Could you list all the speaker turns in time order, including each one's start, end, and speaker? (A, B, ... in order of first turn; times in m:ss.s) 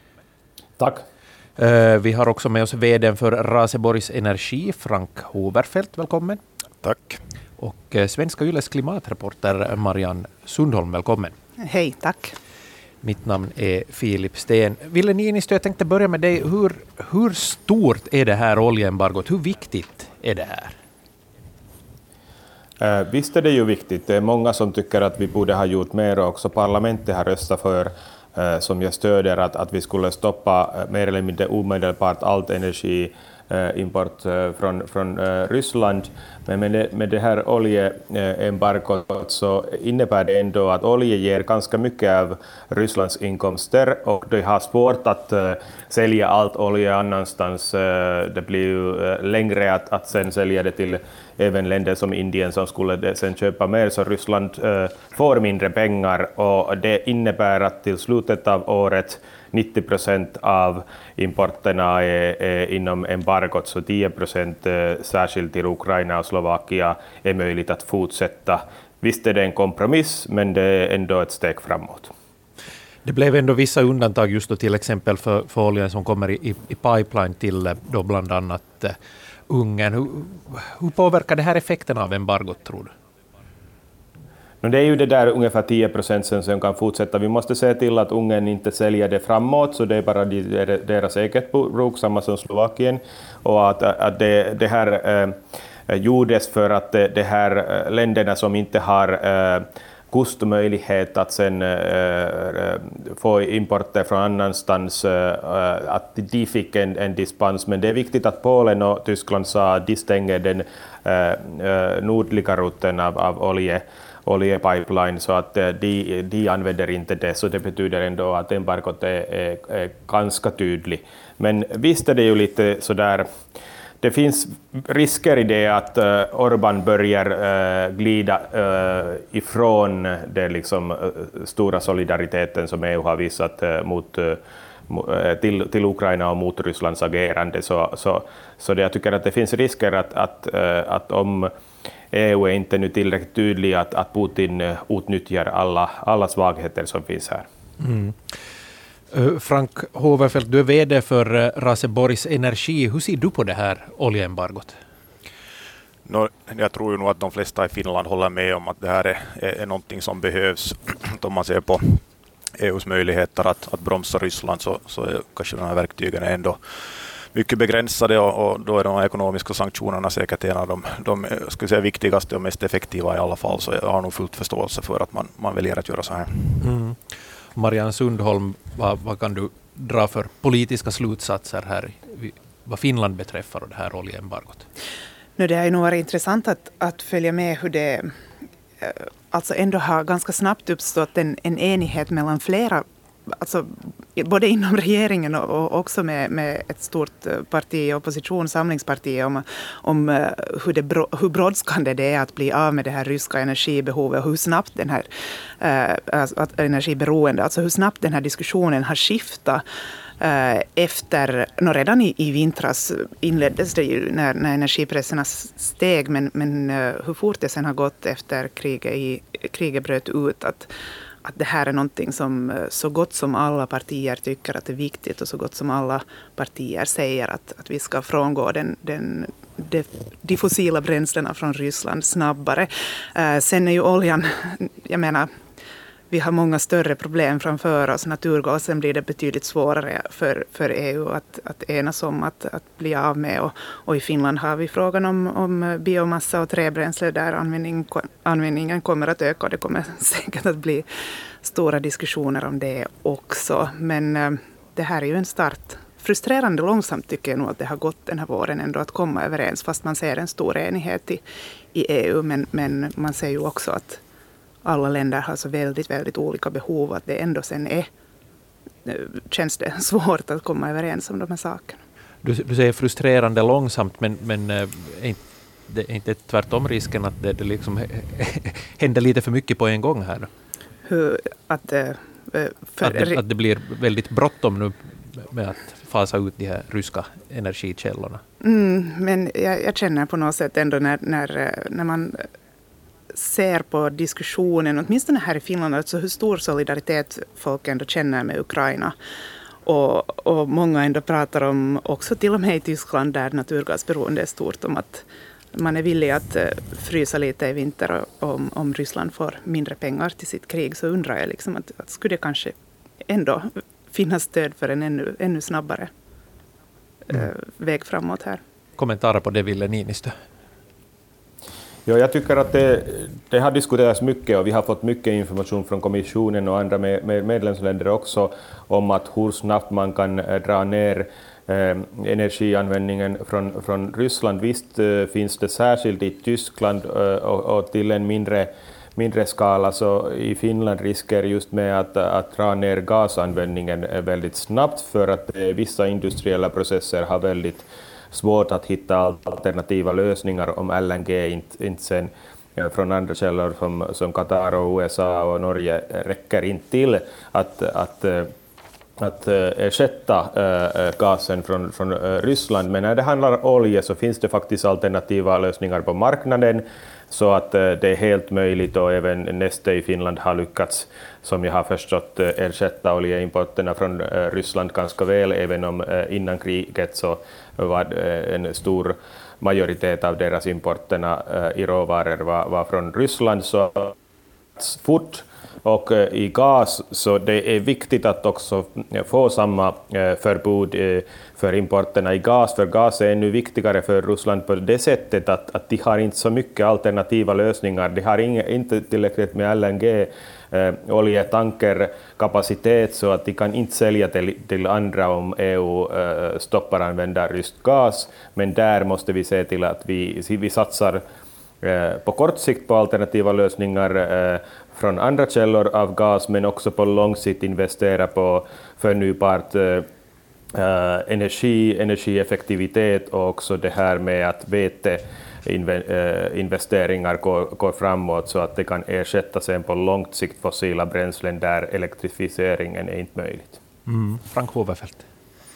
0:00.8-0:01.0 A
0:01.6-0:06.4 B
0:06.8-0:07.2 C
0:07.6-0:11.3 B
0:11.6-0:12.4 D
0:13.0-0:20.8 B
0:22.8-1:12.1 A
1:13.0-1:19.0 B
1:19.5-1:22.9 B
1:24.6-1:35.4 A
1:35.9-2:03.3 A
2:04.0-2:21.5 A
2:22.1-2:27.5 A
2:27.8-2:28.2 B
2:29.1-2:34.8 B
2:36.0-2:42.0 C
2:42.6-2:56.6 C
2:56.6-2:57.0 B
2:57.6-3:04.6 B
3:05.4-3:08.1 D
3:08.8-3:25.1 D
3:25.6-3:29.6 D
3:30.2-3:40.7 D
3:41.2-3:55.3 D
3:56.1-4:10.8 D
4:11.4-4:21.2 D
4:21.7-4:24.0 D
4:24.6-4:27.9 D
4:28.8-4:31.8 D
4:32.2-4:40.3 B
4:40.8-4:43.2 D
4:42.8-4:48.2 B
4:48.4-4:52.3 D
4:53.1-4:58.9 D
4:59.6-5:15.9 D
5:17.1-5:18.4 D
5:18.8-5:20.1 B
5:21.8-5:58.3 A
5:59.0-6:23.9 A
6:24.6-6:51.0 A
6:51.6-6:59.9 A
7:00.5-7:13.6 A
7:13.9-7:15.0 B